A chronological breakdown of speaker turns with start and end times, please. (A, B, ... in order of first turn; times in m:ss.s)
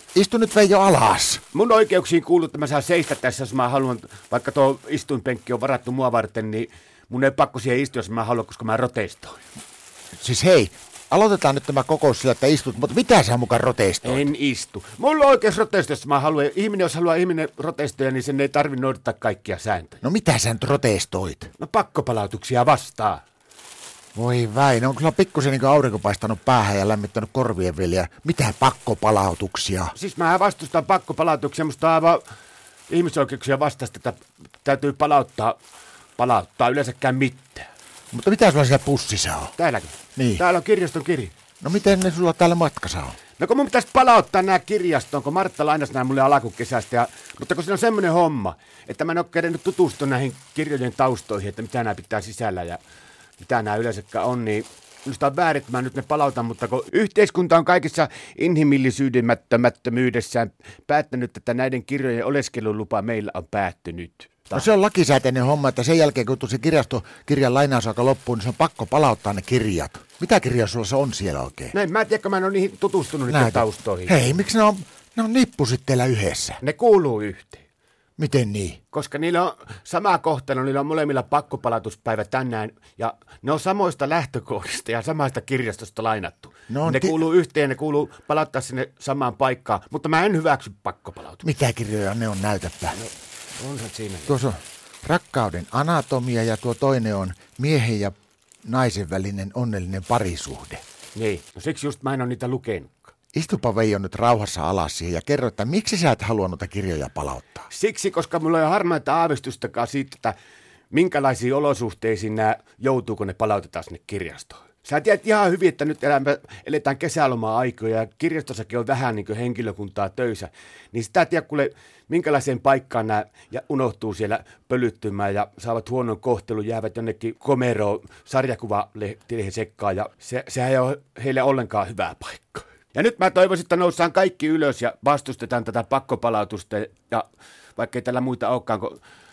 0:00.2-0:01.4 A
0:01.5-0:09.4 B
0:10.2-0:14.3 A
0:14.0-0:20.0 B
0:20.0-0:21.5 A
0:21.6-0:23.2 B
0:24.2-0:29.9 A
0:30.0-0:32.2 B
0:32.9-0:35.6 B
0:36.2-0:37.7 B
0:38.1-0:39.5 A
0:39.6-0:41.3 B
0:40.2-0:40.4 A
0:41.6-0:43.2 A
0:43.4-0:52.8 B
0:53.4-1:04.7 B
1:04.5-1:11.7 A
1:11.7-1:14.4 B
1:13.3-1:16.6 A
1:16.6-1:17.6 B
1:18.2-1:18.8 A
1:18.9-1:31.4 B
1:26.7-1:27.2 A
1:31.4-1:33.0 A
1:32.9-1:34.4 B
1:34.3-1:40.8 A
1:41.2-1:43.1 B
1:43.3-1:47.7 A
1:47.7-1:50.3 B
1:50.9-2:19.0 B